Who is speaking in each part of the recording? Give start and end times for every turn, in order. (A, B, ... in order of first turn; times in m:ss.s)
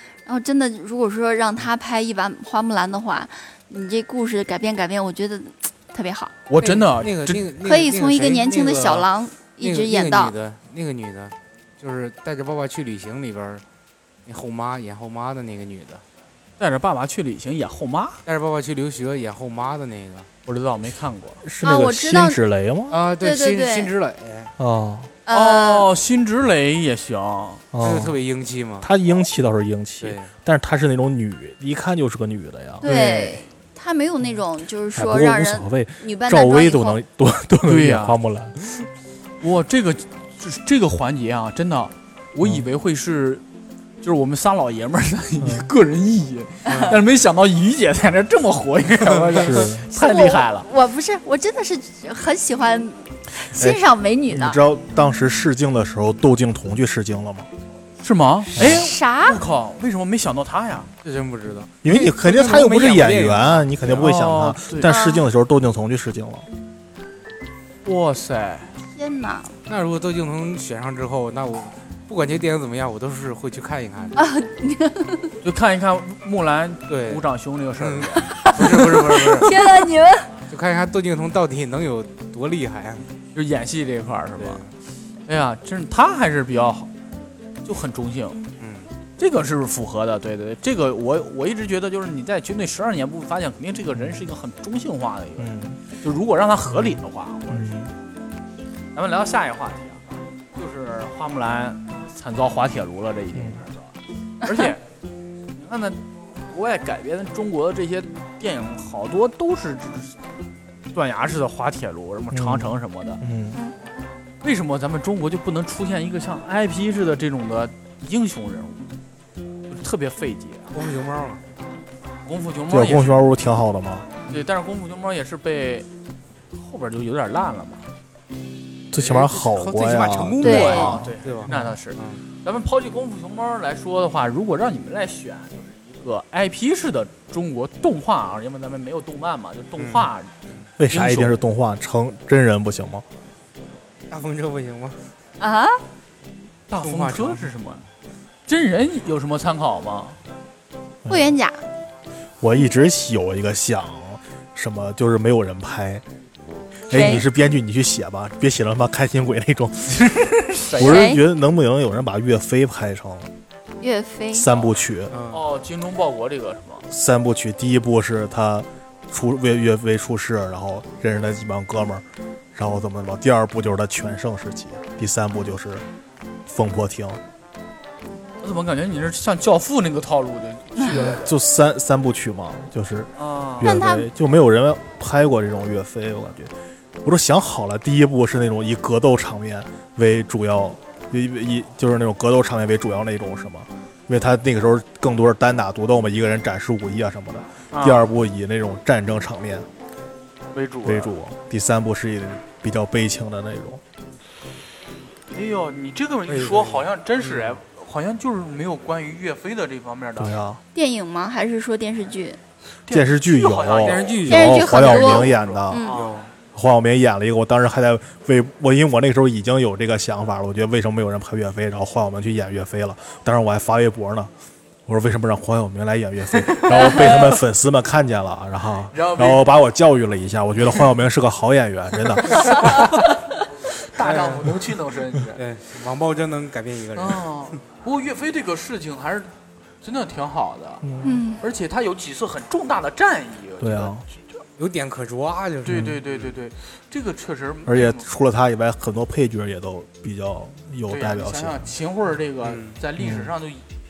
0:00.3-0:06.3 A
0:06.5-0:07.5 B
0:06.6-0:13.6 C
0:07.6-0:10.4 A
0:14.3-0:16.0 C
0:16.6-0:18.2 B
0:18.3-0:20.3 C
0:20.5-0:21.4 B
0:21.4-0:23.0 D
0:21.6-0:22.4 A
0:22.9-0:24.5 C
0:23.2-0:23.9 A
0:24.6-0:25.1 D
0:25.3-0:25.9 A
0:25.3-0:27.6 B
0:27.7-0:28.2 D
0:27.8-0:28.9 C
0:28.8-0:32.9 D
0:30.0-0:30.3 C
0:32.8-0:33.5 B
0:32.8-0:37.0 A
0:35.0-0:38.9 D
0:37.7-0:38.2 B
0:39.4-0:43.4 B
0:42.4-0:42.7 D
0:44.0-0:50.7 B
0:45.4-0:45.7 D
0:46.7-0:47.0 C
0:49.4-0:49.9 D
0:49.9-0:54.6 A
0:53.6-0:57.5 D
0:58.0-1:00.9 B
0:58.6-0:59.4 A
0:58.6-0:58.9 D
1:01.0-1:04.1 C
1:01.8-1:06.4 D
1:03.9-1:04.9 B
1:04.8-1:05.2 A
1:07.8-1:08.7 B
1:09.0-1:09.5 A
1:09.7-1:14.3 C
1:14.2-1:15.3 A
1:15.4-1:18.3 B
1:16.9-1:19.6 C
1:18.4-1:20.3 A
1:20.5-1:23.1 C
1:23.4-1:24.6 B
1:24.4-1:24.7 C
1:25.3-1:26.9 B
1:27.6-1:28.4 B
1:28.6-1:28.9 C
1:29.2-1:35.5 B
1:34.0-1:34.2 D
1:35.4-1:35.8 D
1:36.0-1:37.7 B
1:36.7-1:37.9 D
1:39.0-1:40.0 B
1:40.6-1:43.9 B
1:44.4-1:44.7 A
1:44.4-1:44.8 B
1:45.6-1:46.0 B
1:46.5-1:50.2 B
1:50.9-1:53.2 B
1:52.3-1:53.6 D
1:54.4-1:58.9 B
1:59.7-2:00.7 B
2:00.7-2:01.5 C
2:02.3-2:03.2 B
2:02.7-2:04.1 D
2:04.3-2:05.9 B
2:06.6-2:07.9 B
2:08.9-2:10.9 D
2:08.9-2:12.2 C
2:10.4-2:20.3 B
2:10.4-2:11.0 A
2:11.5-2:11.8 D
2:19.8-2:20.7 C
2:20.8-2:23.0 D
2:20.9-2:21.4 B
2:24.1-2:25.0 C
2:25.4-2:25.8 A
2:26.7-2:27.8 B
2:26.8-2:27.5 C
2:28.5-2:30.2 B
2:31.0-2:31.3 D
2:31.1-2:31.6 A
2:32.4-2:36.0 D
2:36.9-2:40.1 D
2:36.9-2:37.2 A
2:39.9-2:41.1 B
2:40.7-2:43.3 D
2:40.8-2:41.2 A
2:43.8-2:44.5 A
2:44.3-2:45.2 D
2:45.1-2:45.4 C
2:45.3-2:46.9 B
2:46.9-2:52.0 D
2:52.6-2:55.8 D
2:56.5-2:57.2 D
2:58.4-3:01.3 B
3:00.8-3:01.0 A
3:00.9-3:06.5 D
3:03.2-3:03.8 B
3:03.6-3:04.1 A
3:07.0-3:19.7 D
3:17.7-3:18.1 B
3:20.5-3:21.1 B
3:20.8-3:23.8 D
3:25.3-3:30.4 B
3:26.3-3:27.6 C
3:30.2-3:30.6 D
3:30.7-3:32.4 A
3:32.9-3:36.2 B
3:32.9-3:35.9 D
3:33.8-3:36.3 C
3:34.3-3:35.9 A
3:36.5-3:44.3 D
3:44.9-3:52.8 D
3:46.4-3:47.4 B
3:48.9-3:49.5 B
3:52.3-3:53.1 B
3:53.8-3:55.4 B
3:54.0-3:54.6 C
3:55.4-3:57.6 C
3:57.0-3:59.3 B
3:59.8-4:00.9 B
4:00.8-4:01.2 D
4:01.0-4:01.4 A
4:01.4-4:04.0 B
4:03.6-4:04.0 D
4:04.6-4:06.3 C
4:05.6-4:08.1 B
4:05.7-4:06.0 D
4:07.7-4:11.7 D
4:10.9-4:13.6 B
4:12.4-4:12.8 C
4:13.0-4:13.3 D